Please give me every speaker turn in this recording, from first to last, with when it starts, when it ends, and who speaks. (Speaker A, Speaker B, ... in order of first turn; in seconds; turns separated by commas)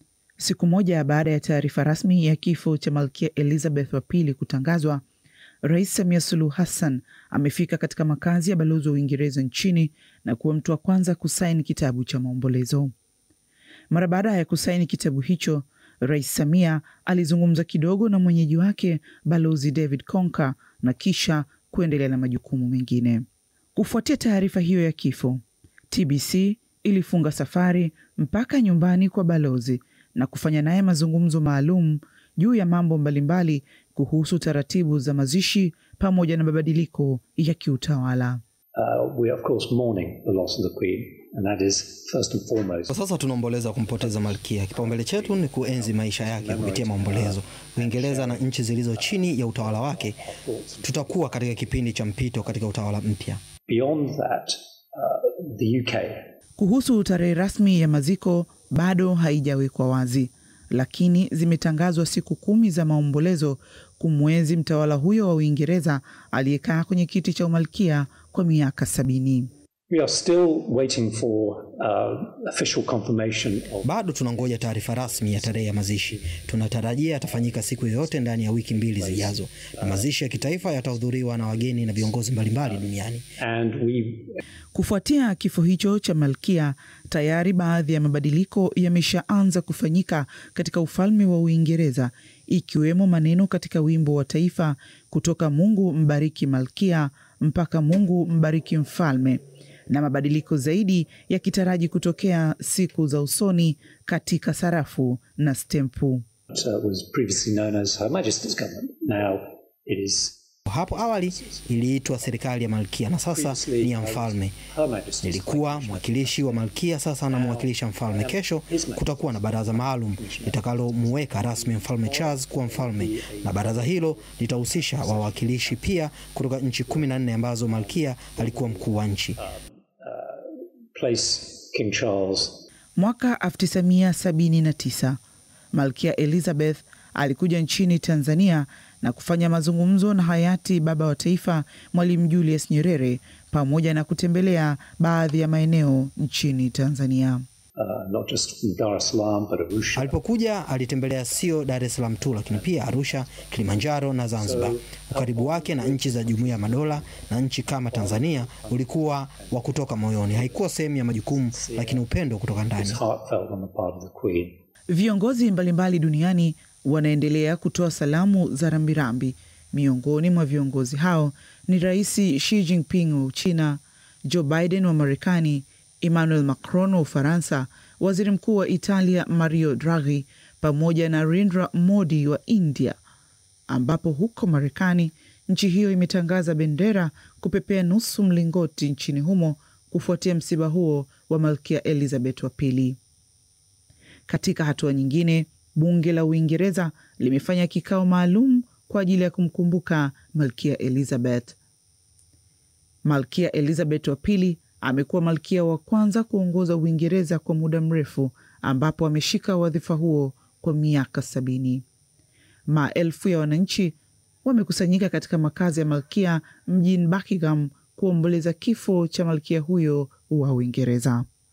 Speaker A: 0.4-5.0, Speaker A: 5.6-12.9, Speaker A: 13.9-38.4, Speaker B: 38.8-43.0, Speaker C: 42.9-50.2, Speaker B: 43.9-51.9, Speaker C: 50.8-53.4, Speaker B: 53.7-56.2, Speaker A: 56.6-69.5, Speaker B: 69.9-84.4, Speaker C: 73.8-83.2, Speaker A: 84.7-106.2, Speaker B: 106.5-112.4, Speaker C: 110.7-114.6, Speaker B: 113.3-126.2, Speaker C: 115.2-129.4, Speaker B: 126.9-132.7, Speaker A: 133.0-135.2, Speaker A: 135.7-147.4, Speaker B: 147.8-157.3, Speaker C: 149.9-163.0, Speaker B: 157.9-160.8, Speaker B: 161.3-162.1, Speaker B: 162.7-164.6, Speaker A: 164.9-183.0, Speaker A: 183.7-193.0, Speaker A: 194.3-201.6, Speaker A: 203.1-211.8, Speaker A: 212.7-221.3